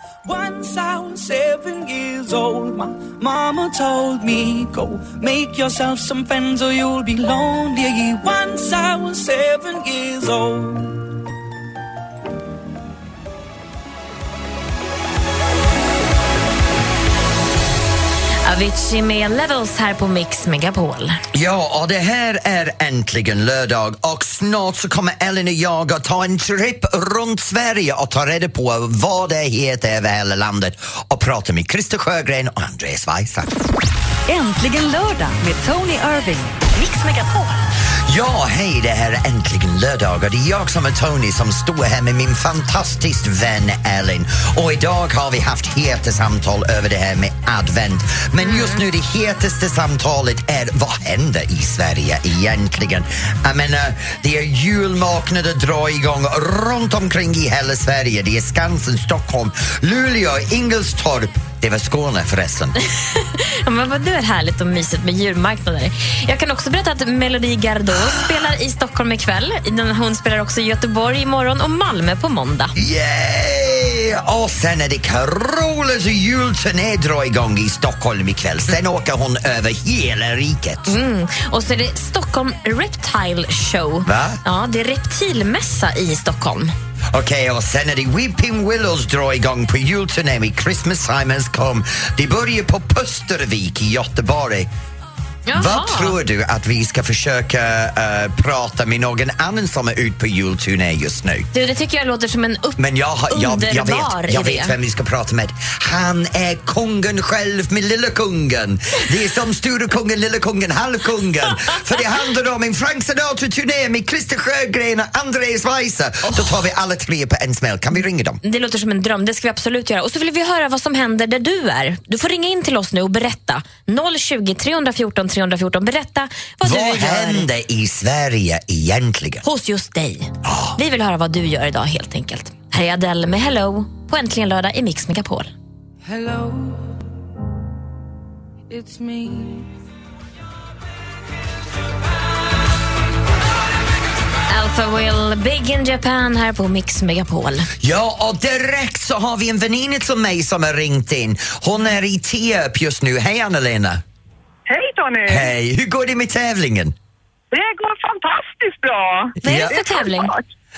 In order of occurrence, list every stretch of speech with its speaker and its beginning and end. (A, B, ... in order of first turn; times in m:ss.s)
0:00.2-0:11.0 A
0:18.4-0:21.2 B
0:21.3-0:33.5 C
0:34.3-0:37.6 D
0:38.1-1:02.7 C
0:48.4-0:48.8 B
1:03.1-1:12.7 B
1:12.8-1:21.0 C
1:20.9-1:26.7 B
1:24.0-1:24.4 C
1:27.1-1:34.7 C
1:35.5-1:36.2 B
1:35.6-1:41.5 C
1:41.5-1:44.7 B
1:42.8-1:58.4 C
1:56.2-1:56.6 B
1:58.4-2:07.5 B
2:06.6-2:09.4 C
2:09.4-2:15.5 B
2:10.4-2:10.8 C
2:16.0-2:16.8 A
2:18.7-2:19.7 A
2:24.5-2:27.7 B
2:27.8-2:34.0 C
2:34.7-2:35.5 E
2:35.2-2:36.9 C
2:37.5-2:40.4 E
2:39.4-2:39.8 C
2:39.4-2:40.3 B